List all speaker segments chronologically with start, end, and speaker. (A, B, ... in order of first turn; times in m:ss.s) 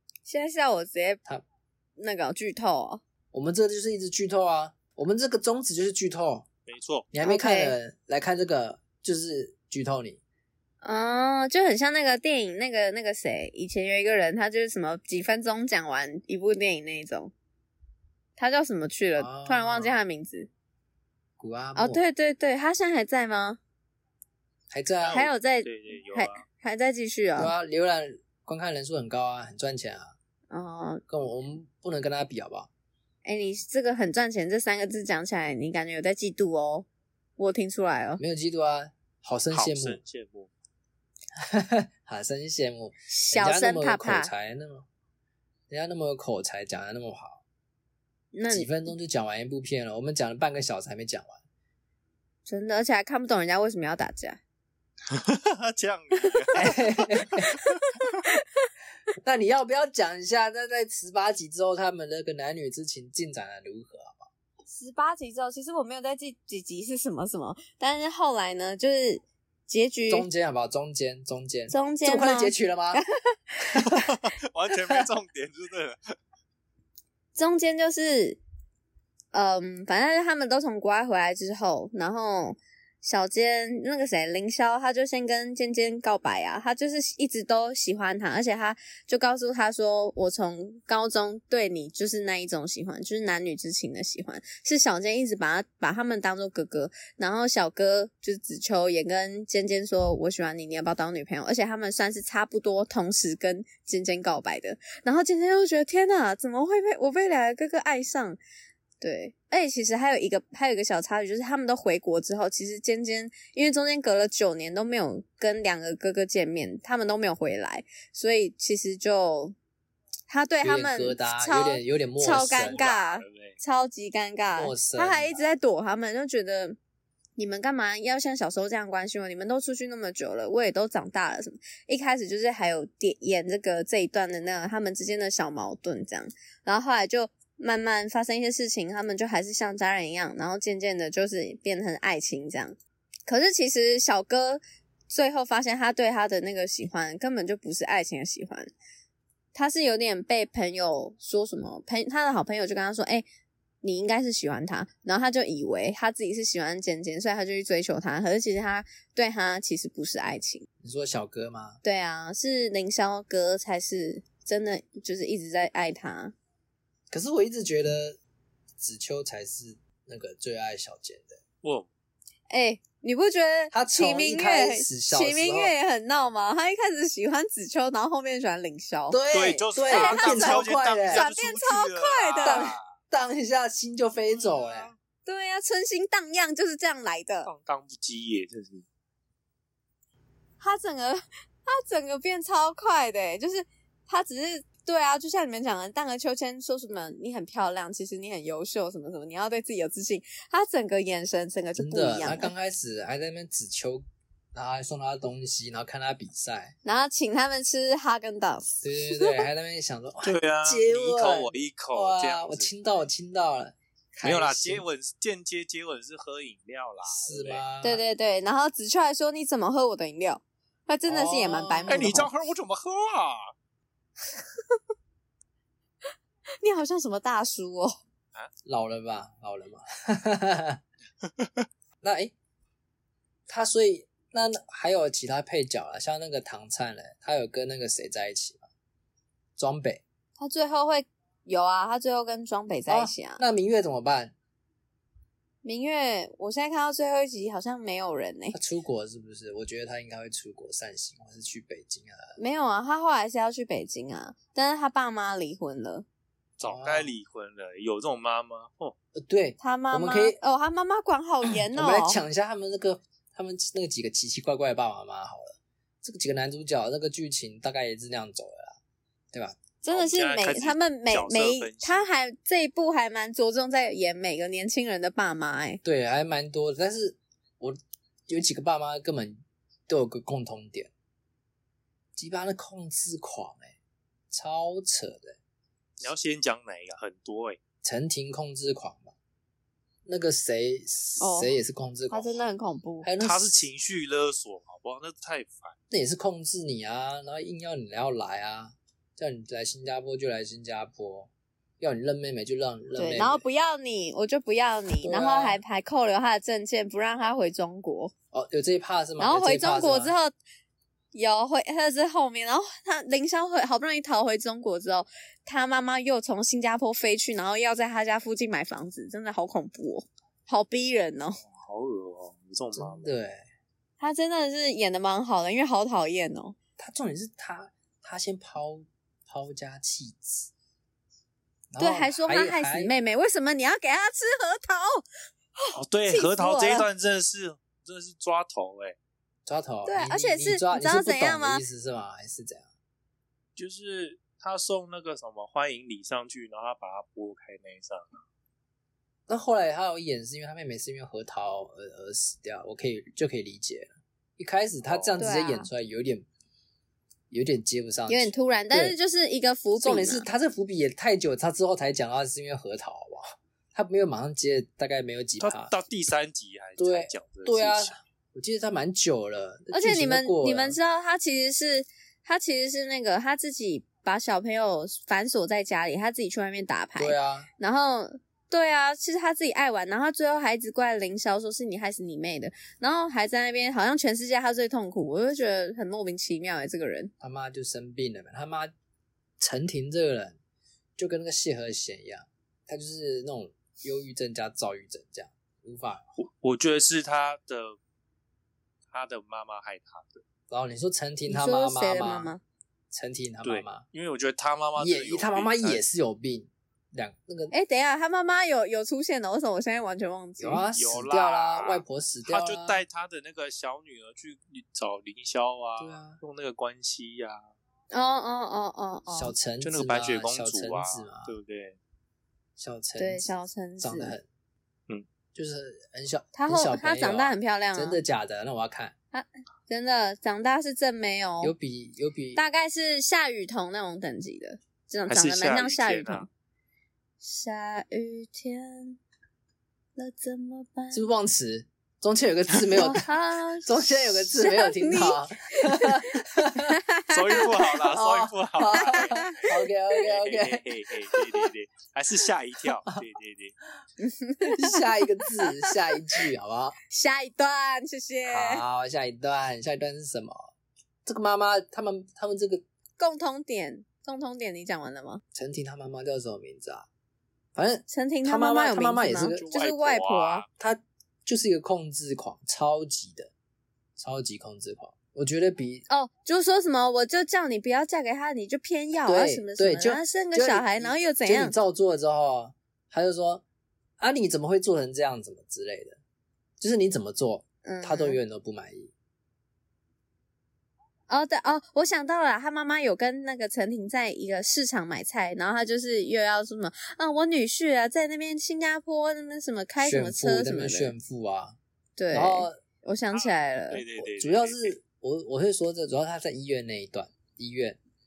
0:00.3-0:01.2 A
0:02.0-0:03.0 A
0:03.3-0:06.5 B
0:06.7-0:07.1 C
0:07.1-0:10.2 B
0:07.2-0:07.8 A
0:10.8-0:17.3 A
0:18.4-0:20.5 A
0:19.2-0:20.0 B
0:21.4-0:22.0 B
0:21.8-0:23.6 A
0:24.7-0:25.3 B
0:25.0-0:26.4 C
0:25.1-0:27.5 A
0:27.4-0:30.1 B
0:30.5-0:31.0 A
0:31.1-0:32.7 B
0:33.2-0:36.9 A
0:37.4-0:38.2 A
0:38.2-0:40.0 B
0:39.5-0:40.5 C
0:41.4-0:44.9 B
0:43.1-0:44.3 A
0:45.7-0:47.4 B
0:48.3-0:48.7 A
0:48.5-0:51.4 B
0:52.5-0:54.4 A
0:55.1-0:56.8 C
0:56.6-0:57.5 B
0:57.6-0:58.7 A
0:59.2-1:04.3 B
1:04.7-1:10.3 A
1:10.1-1:13.0 B
1:11.7-1:14.0 A
1:13.8-1:16.2 C
1:17.4-1:18.4 A
1:19.3-1:48.4 A
1:49.0-1:59.6 A
2:00.3-2:06.8 A
2:00.6-2:02.9 B
2:02.3-2:03.6 C
2:04.6-2:05.4 B
2:07.4-2:28.7 A
2:29.5-2:33.3 A
2:33.8-2:40.7 A
2:40.8-2:41.8 B
2:41.8-2:46.3 A
2:47.1-2:48.2 B
2:48.8-2:51.4 B
2:52.5-2:59.2 A
2:53.7-2:55.7 B
2:59.1-3:01.3 B
2:59.3-3:02.8 C
2:59.9-3:02.8 A
3:02.4-3:04.9 B
3:04.3-3:05.0 C
3:05.2-3:07.5 A
3:07.4-3:08.8 C
3:10.6-3:22.5 A
3:21.8-3:24.0 B
3:24.5-3:26.8 B
3:26.8-3:29.5 A
3:28.8-3:34.8 B
3:30.2-3:32.7 C
3:34.2-3:37.6 C
3:37.0-3:38.0 B
3:37.8-3:42.3 A
3:41.1-3:42.3 B
3:41.9-3:43.5 C
3:46.6-3:48.0 A
3:48.7-3:50.8 B
3:51.2-3:51.6 C
3:52.0-3:52.3 B
3:53.5-3:58.7 B
3:59.6-4:00.0 B
4:00.4-4:03.4 A
4:02.9-4:04.3 B
4:05.6-4:08.6 A
4:08.5-4:12.4 B
4:12.4-4:16.1 A
4:16.6-4:19.0 C
4:16.6-4:17.1 B
4:19.2-4:20.4 B
4:19.6-4:22.2 A
4:21.7-4:28.8 B
4:29.3-4:29.6 B
4:29.8-4:35.8 A
4:29.9-4:32.1 C
4:35.8-4:40.9 B
4:42.2-4:43.7 B
4:44.3-4:45.4 B
4:46.0-4:47.6 C
4:47.8-4:49.1 B
4:50.1-4:52.4 B
4:51.2-4:51.5 A
4:52.1-4:53.1 A
4:53.0-4:53.6 B
4:53.2-4:55.8 C
4:55.9-5:03.4 B
5:03.0-5:08.1 A
5:05.0-5:05.6 B
5:08.3-5:10.1 B
5:09.2-5:10.3 A
5:11.1-5:21.4 A
5:21.4-5:23.1 C
5:22.7-5:23.4 B
5:24.0-5:26.6 A
5:26.8-5:30.5 B
5:31.7-5:32.9 B
5:31.8-5:35.0 A
5:35.6-5:36.9 A
5:35.7-5:39.0 C
5:39.5-5:42.7 B
5:39.8-5:41.6 A
5:43.6-5:48.2 C
5:49.3-5:56.3 B
5:54.8-5:55.2 C
5:55.2-5:55.7 A
5:57.3-5:59.0 B
5:58.1-6:00.3 A
5:59.8-6:05.7 B
6:05.4-6:08.0 C
6:06.8-6:10.8 B
6:09.7-6:27.1 A
6:17.0-6:17.5 B
6:27.2-6:28.7 B
6:29.4-6:30.4 B
6:31.0-6:36.0 B
6:36.2-6:37.8 C
6:38.9-6:40.2 C
6:40.5-6:42.3 B
6:41.3-6:42.4 A
6:42.9-6:43.8 B
6:43.4-6:45.8 C
6:44.8-6:47.5 B
6:47.5-6:50.6 A
6:50.4-6:52.8 B
6:50.7-6:57.5 C
6:55.8-6:56.2 B
6:57.9-6:59.4 A
6:59.1-7:01.3 B
6:59.6-7:01.8 C
7:02.6-7:04.3 B
7:03.0-7:04.2 A
7:05.4-7:09.0 B
7:06.3-7:08.0 A
7:09.1-7:11.5 A
7:11.4-7:12.4 B
7:12.4-7:16.3 A
7:15.1-7:16.3 C
7:17.2-7:19.0 A
7:20.0-7:21.1 A
7:20.9-7:23.1 B
7:22.7-7:27.6 A
7:23.6-7:26.8 B
7:27.1-7:33.6 C
7:27.7-7:30.7 B
7:28.8-7:29.4 A
7:34.0-7:36.0 A
7:34.4-7:36.8 B
7:36.9-7:38.6 A
7:38.3-7:40.5 B
7:41.0-7:42.6 B
7:43.0-7:45.2 A
7:45.3-7:46.9 B
7:47.6-7:49.4 B
7:47.9-7:50.4 A
7:49.4-7:50.5 C
7:50.6-7:53.3 B
7:54.0-7:55.8 B
7:55.9-8:01.6 A
7:59.0-8:03.4 B
8:04.0-8:06.0 B
8:06.6-8:08.9 B
8:07.6-8:08.2 A
8:11.1-8:20.9 A
8:19.8-8:21.6 B
8:22.0-8:23.8 A
8:22.1-8:22.6 B
8:23.1-8:24.7 C
8:24.0-8:27.8 B